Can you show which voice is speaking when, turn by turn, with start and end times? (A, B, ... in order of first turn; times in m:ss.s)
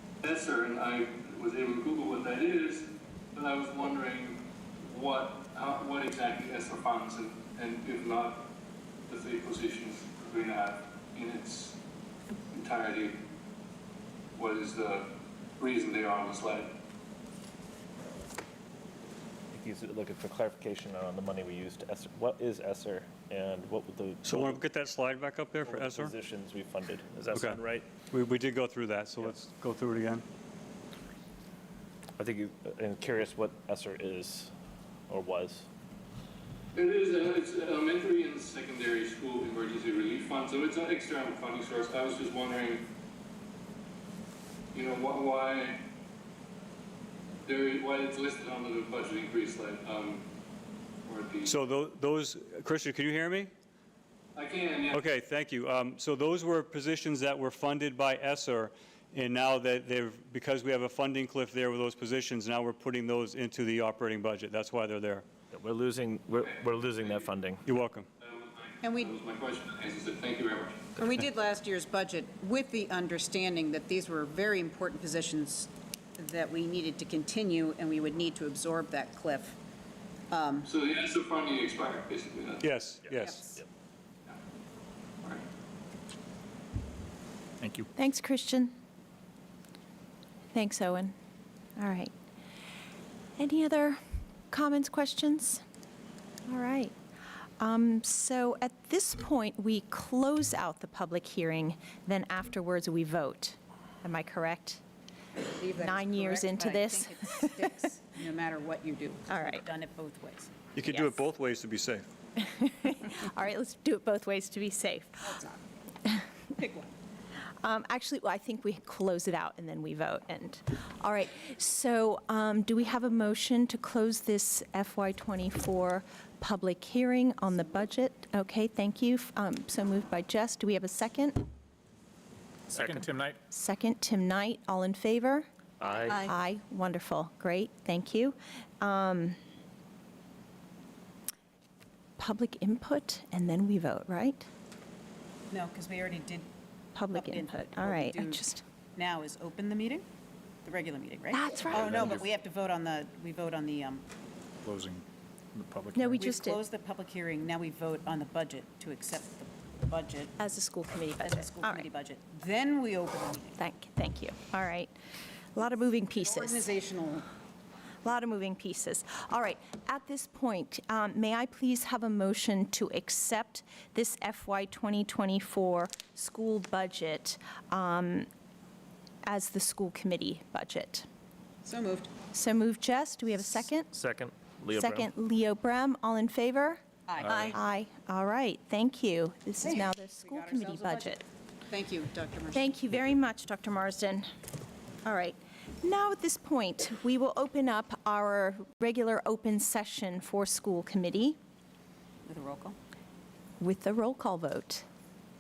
0:00.2-0:08.5 A
0:09.1-0:11.8 A
0:12.5-0:13.2 A
0:14.4-0:16.7 A
0:19.5-0:24.6 B
0:24.2-0:26.1 C
0:25.6-0:27.9 B
0:27.3-0:30.2 C
0:32.2-0:34.5 B
0:35.1-0:35.7 B
0:36.8-0:42.9 A
0:44.7-0:45.8 A
0:47.5-0:50.3 A
0:51.0-0:51.6 A
0:51.4-0:53.5 C
0:54.4-0:55.0 A
0:54.9-1:05.3 C
1:05.5-1:07.6 B
1:06.4-1:07.3 A
1:07.6-1:08.1 C
1:08.2-1:11.0 A
1:08.8-1:09.2 D
1:11.0-1:19.6 D
1:20.3-1:20.7 D
1:20.6-1:22.7 A
1:22.6-1:23.4 C
1:23.2-1:23.6 D
1:27.6-1:27.9 E
1:28.0-1:28.7 F
1:30.5-1:31.1 F
1:31.8-1:32.1 F
1:33.4-1:34.0 F
1:34.5-1:35.6 F
1:36.5-1:36.9 F
1:37.6-1:44.8 F
1:45.4-1:51.2 D
1:45.8-1:47.6 F
1:49.3-1:49.7 F
1:50.8-1:52.0 C
1:52.4-1:55.4 F
1:55.2-1:55.6 D
1:56.6-1:56.9 D
1:57.6-2:11.4 F
2:12.7-2:13.4 E
2:13.5-2:15.5 F
2:15.8-2:16.3 B
2:16.1-2:19.4 F
2:22.2-2:24.5 F
2:25.5-2:26.5 D
2:27.0-2:28.6 F
2:27.1-2:30.1 D
2:30.6-2:34.0 D
2:31.3-2:32.1 F
2:31.7-2:32.3 E
2:34.6-2:36.2 E
2:35.9-2:36.6 F
2:36.2-2:40.4 D
2:40.4-2:41.9 F
2:41.2-2:43.6 D
2:43.6-2:44.9 F
2:45.6-2:46.7 F
2:46.0-2:47.3 D
2:48.0-2:58.3 F
2:59.3-3:01.1 F
3:01.6-3:02.1 D
3:02.3-3:03.9 F
3:03.9-3:05.1 B
3:04.7-3:11.2 F
3:07.1-3:07.6 D
3:09.6-3:12.6 D
3:12.5-3:14.3 F
3:15.0-3:21.4 F
3:22.2-3:22.8 D
3:23.6-3:24.8 F